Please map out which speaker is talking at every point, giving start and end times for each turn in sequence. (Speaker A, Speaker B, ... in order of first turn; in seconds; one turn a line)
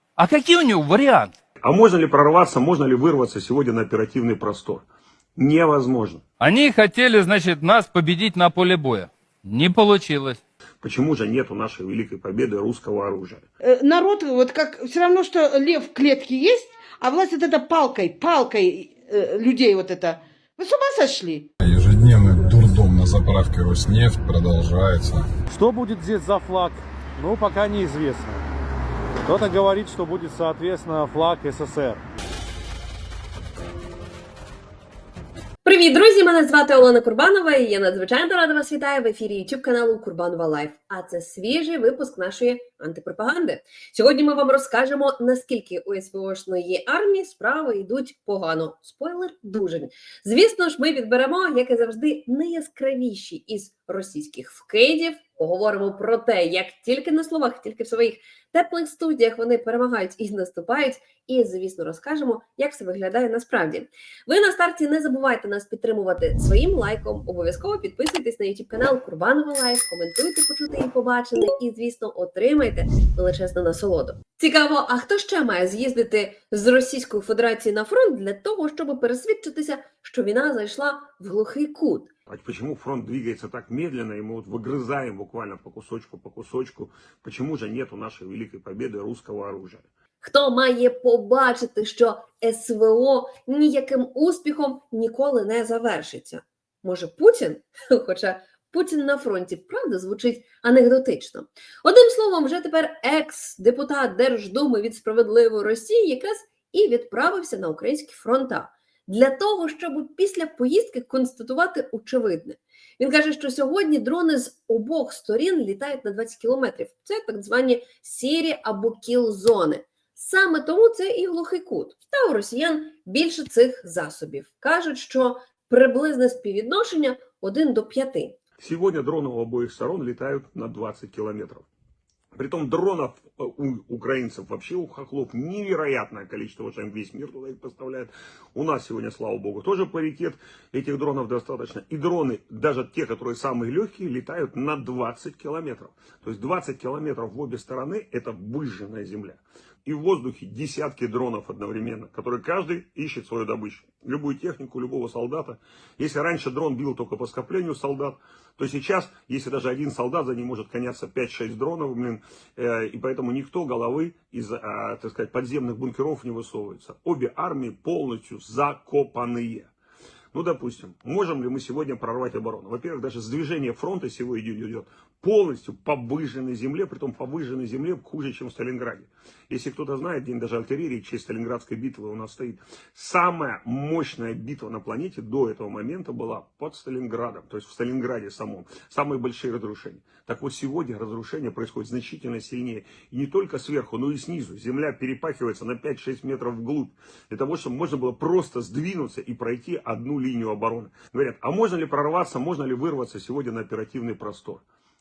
Speaker A: 0.2-1.3
Speaker B: 1.6-4.8
Speaker B: 5.4-6.2
Speaker A: 6.4-10.4
Speaker B: 10.8-13.4
Speaker C: 13.6-21.5
Speaker D: 21.6-25.3
Speaker E: 25.5-28.4
Speaker E: 29.3-32.0
Speaker F: 35.6-82.1
Speaker B: 82.3-89.9
Speaker F: 90.2-128.4
Speaker B: 128.6-131.7
Speaker B: 132.3-169.7
Speaker B: 170.3-204.6